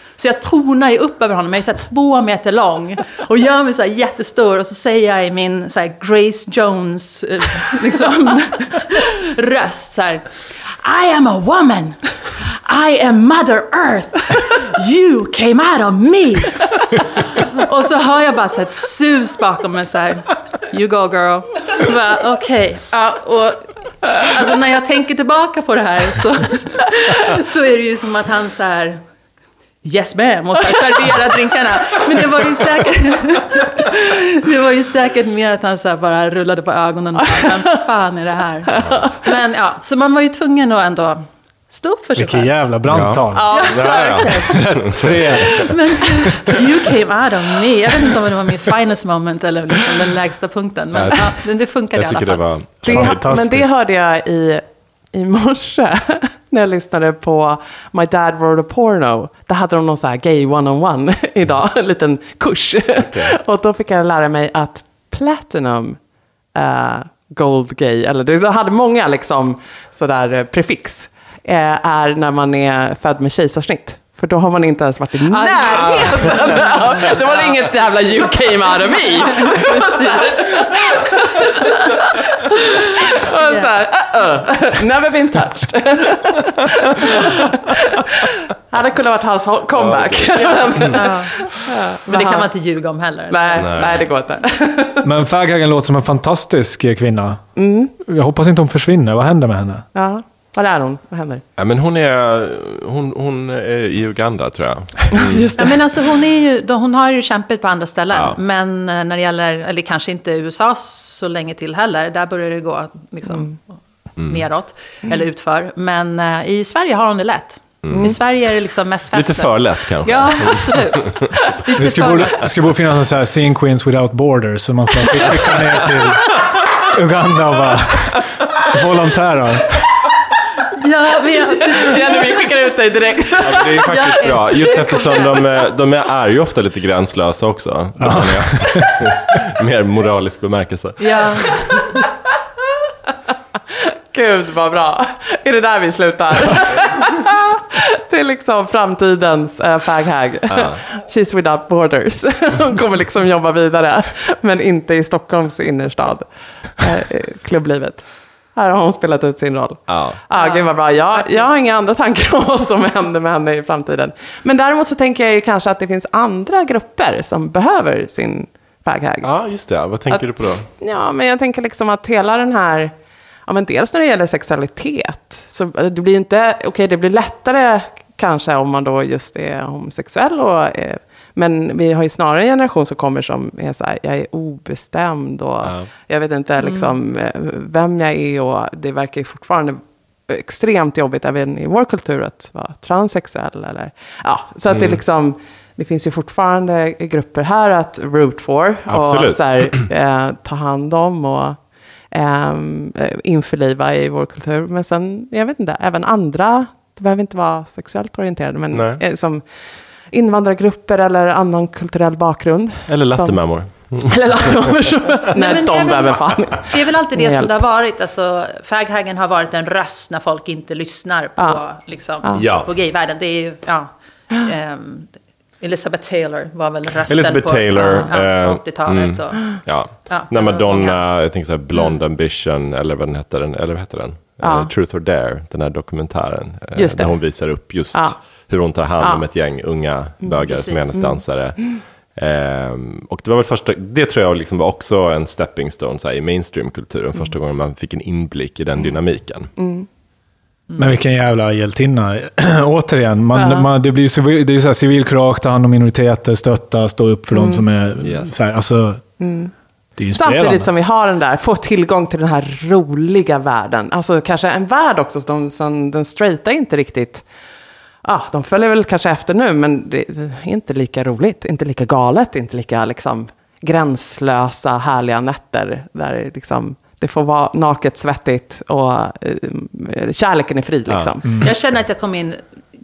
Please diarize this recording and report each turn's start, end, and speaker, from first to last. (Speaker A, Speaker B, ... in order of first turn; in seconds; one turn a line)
Speaker A: 0.2-29.0
Speaker A: 29.8-42.5
Speaker B: 38.8-39.0
Speaker C: 42.2-43.6
Speaker B: 42.9-45.7
Speaker D: 43.3-44.4
Speaker A: 43.5-44.6
Speaker C: 44.6-45.7
Speaker A: 45.5-52.5
Speaker B: 50.9-51.3
Speaker B: 51.9-53.6
Speaker C: 52.8-53.6
Speaker D: 52.9-66.0
Speaker B: 63.0-63.4
Speaker D: 66.5-82.0
Speaker A: 75.3-78.3
Speaker A: 78.8-82.0
Speaker D: 83.1-92.5
Speaker A: 83.2-83.7
Speaker B: 89.7-91.0
Speaker A: 90.3-91.4
Speaker A: 92.1-94.0
Speaker D: 93.3-95.0
Speaker B: 93.6-94.1
Speaker C: 95.0-97.5
Speaker D: 97.5-97.9
Speaker C: 98.0-99.9
Speaker D: 99.9-101.4
Speaker B: 101.6-105.5
Speaker D: 105.1-105.8
Speaker A: 105.6-122.4
Speaker B: 108.1-108.4
Speaker D: 113.3-113.5
Speaker B: 114.2-114.4
Speaker B: 117.8-118.2
Speaker B: 119.1-121.3
Speaker C: 121.7-130.0
Speaker A: 130.7-132.2
Speaker D: 131.8-133.8
Speaker B: 133.4-141.9
Speaker A: 133.6-135.4
Speaker C: 138.0-138.9
Speaker A: 141.0-141.6
Speaker D: 143.9-156.2
Speaker B: 150.5-150.8
Speaker D: 156.8-169.3
Speaker B: 159.9-160.2
Speaker A: 160.3-161.7
Speaker B: 169.2-170.7
Speaker D: 170.1-172.9
Speaker D: 173.5-201.6
Speaker B: 185.6-185.9
Speaker A: 186.6-186.9
Speaker B: 194.7-195.0
Speaker B: 198.9-199.8
Speaker D: 202.1-209.4
Speaker B: 208.7-209.0
Speaker D: 210.1-217.6
Speaker B: 212.9-214.7
Speaker A: 215.3-231.0
Speaker B: 222.3-222.7
Speaker B: 227.1-249.5
Speaker D: 234.4-234.7
Speaker D: 236.8-238.2
Speaker D: 238.8-239.2
Speaker A: 240.4-240.9
Speaker D: 240.9-241.2
Speaker D: 249.6-249.9
Speaker C: 250.8-259.2
Speaker D: 253.3-253.7
Speaker D: 257.3-257.7
Speaker B: 258.0-258.4
Speaker D: 259.2-259.5
Speaker C: 260.0-260.7
Speaker D: 260.1-267.2
Speaker D: 268.0-281.4
Speaker B: 280.9-281.5
Speaker A: 281.4-282.4